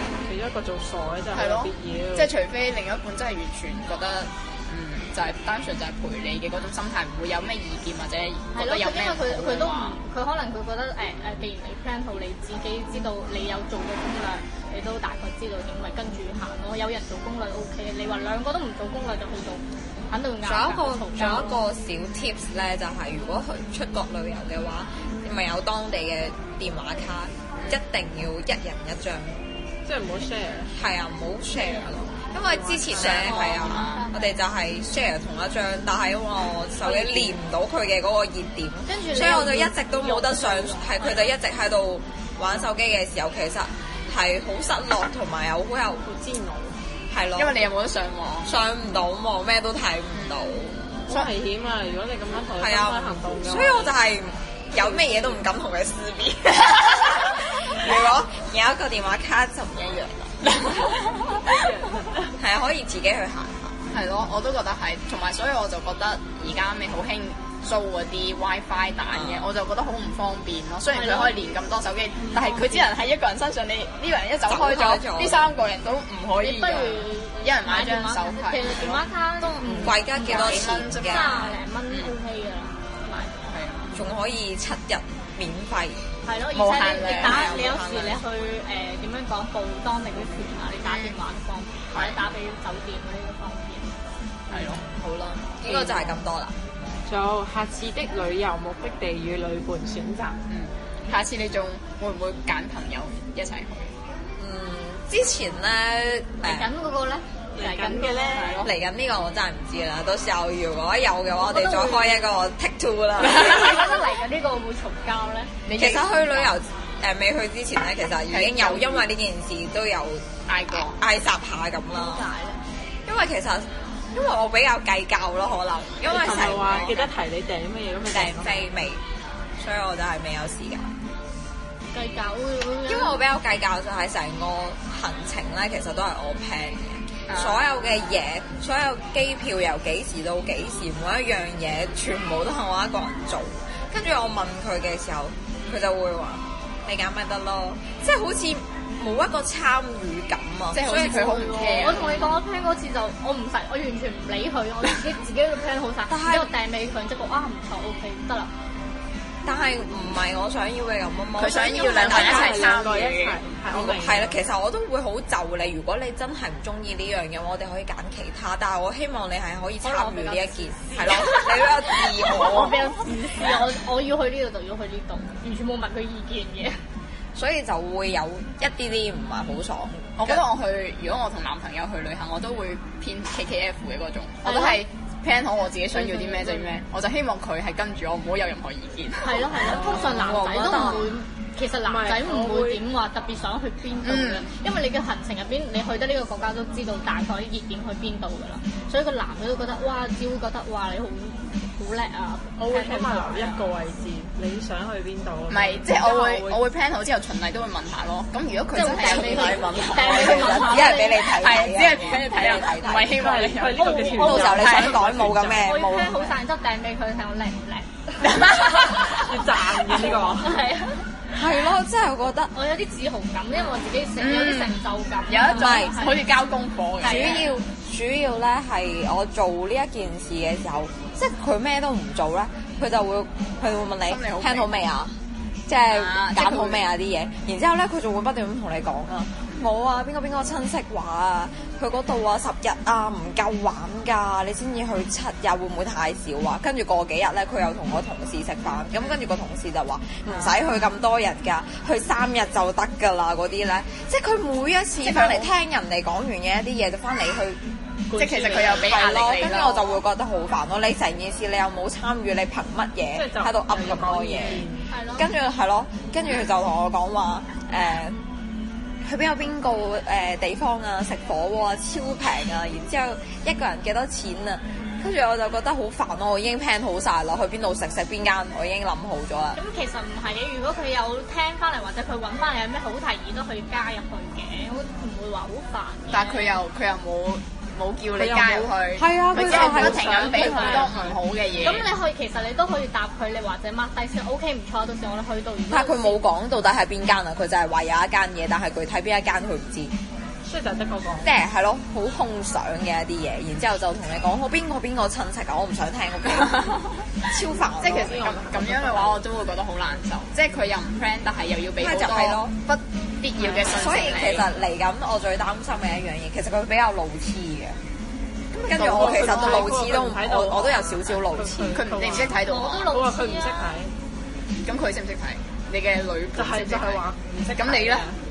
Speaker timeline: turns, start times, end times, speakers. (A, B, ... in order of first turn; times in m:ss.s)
0:00.2-0:02.3 A
0:01.3-0:10.0 B
0:08.5-0:21.6 C
0:20.4-0:29.4 D
0:29.8-0:30.7 A
0:30.7-0:46.0 D
0:32.4-0:33.2 A
0:32.9-0:34.1 B
0:33.1-0:34.2 C
0:36.8-0:37.3 A
0:38.8-0:41.3 C
0:46.0-0:46.8 A
0:47.1-0:47.6 D
0:47.4-0:48.5 B
0:48.4-0:51.0 D
0:50.1-0:50.4 B
0:51.1-0:53.9 A
0:52.6-1:01.0 D
0:54.8-0:55.4 A
1:01.4-1:02.4 A
1:02.4-1:03.8 D
1:03.9-1:19.0 B
1:09.1-1:09.5 D
1:10.9-1:11.4 C
1:12.2-1:12.9 C
1:14.4-1:15.5 D
1:16.4-1:23.4 C
1:19.6-1:19.9 A
1:19.6-1:21.6 D
1:20.2-1:22.1 B
1:23.4-1:24.0 B
1:23.9-1:28.2 D
1:26.2-1:33.9 C
1:26.5-1:27.5 B
1:30.8-1:31.2 B
1:31.9-1:32.2 B
1:34.5-1:34.8 B
1:34.8-1:36.6 D
1:37.0-1:40.4 A
1:40.5-1:43.9 B
1:44.4-1:46.7 D
1:46.4-1:48.4 C
1:47.5-1:48.6 A
1:48.3-1:48.8 B
1:48.6-1:53.9 D
1:51.4-1:52.3 C
1:53.2-1:55.6 C
1:55.6-1:56.5 B
1:55.7-2:02.3 D
1:58.3-1:59.1 B
2:00.5-2:01.0 B
2:01.9-2:02.6 C
2:03.0-2:07.0 D
2:06.1-2:08.6 A
2:06.1-2:07.0 B
2:08.1-2:09.0 D
2:09.6-2:10.9 D
2:11.9-2:13.2 C
2:12.9-2:32.4 D
2:17.3-2:17.6 B
2:30.7-2:32.3 B
2:30.8-2:38.5 C
2:36.1-2:36.5 D
2:39.4-2:42.8 D
2:41.4-2:43.4 B
2:41.9-2:44.4 A
2:42.0-2:42.3 C
2:43.7-2:53.0 D
2:49.8-2:56.8 C
2:57.3-3:00.4 D
3:00.2-3:09.7 B
3:04.4-3:04.8 C
3:06.0-3:06.7 A
3:09.2-3:23.7 C
3:09.6-3:10.2 A
3:09.8-3:11.1 D
3:11.8-3:12.8 A
3:14.0-3:14.5 B
3:22.6-3:26.6 A
3:25.5-3:35.1 B
3:28.7-3:31.3 C
3:28.9-3:33.2 D
3:33.1-3:35.6 A
3:33.7-3:34.9 C
3:34.2-3:36.3 D
3:35.6-3:39.3 C
3:38.3-3:39.0 B
3:39.0-3:40.6 A
3:39.9-3:41.0 C
3:41.3-3:42.5 D
3:42.5-3:46.3 C
3:44.2-3:47.5 B
3:45.5-3:46.1 D
3:47.0-3:47.5 C
3:47.0-4:17.6 D
3:54.1-3:54.7 B
3:55.9-3:56.8 B
4:15.0-4:15.5 B
4:18.1-4:19.1 A
4:18.2-4:20.0 B
4:18.8-4:28.2 D
4:23.1-4:24.9 A
4:24.4-4:24.6 B
4:24.9-4:25.3 C
4:29.0-4:39.6 D
4:39.5-4:46.6 C
4:46.1-4:51.9 B
4:48.1-4:51.2 A
4:49.0-4:50.8 D
4:50.1-4:50.9 C
4:51.6-4:56.2 C
4:55.7-4:59.9 D
5:00.5-5:01.3 A
5:01.2-5:08.2 D
5:07.8-5:14.5 B
5:07.8-5:09.2 A
5:11.8-5:12.5 D
5:13.4-5:14.5 A
5:13.7-5:17.8 D
5:18.5-5:19.7 B
5:18.6-5:21.9 D
5:18.8-5:23.9 A
5:21.7-5:22.9 B
5:22.4-5:23.7 C
5:24.6-5:27.0 B
5:26.4-5:28.2 A
5:27.5-5:28.1 B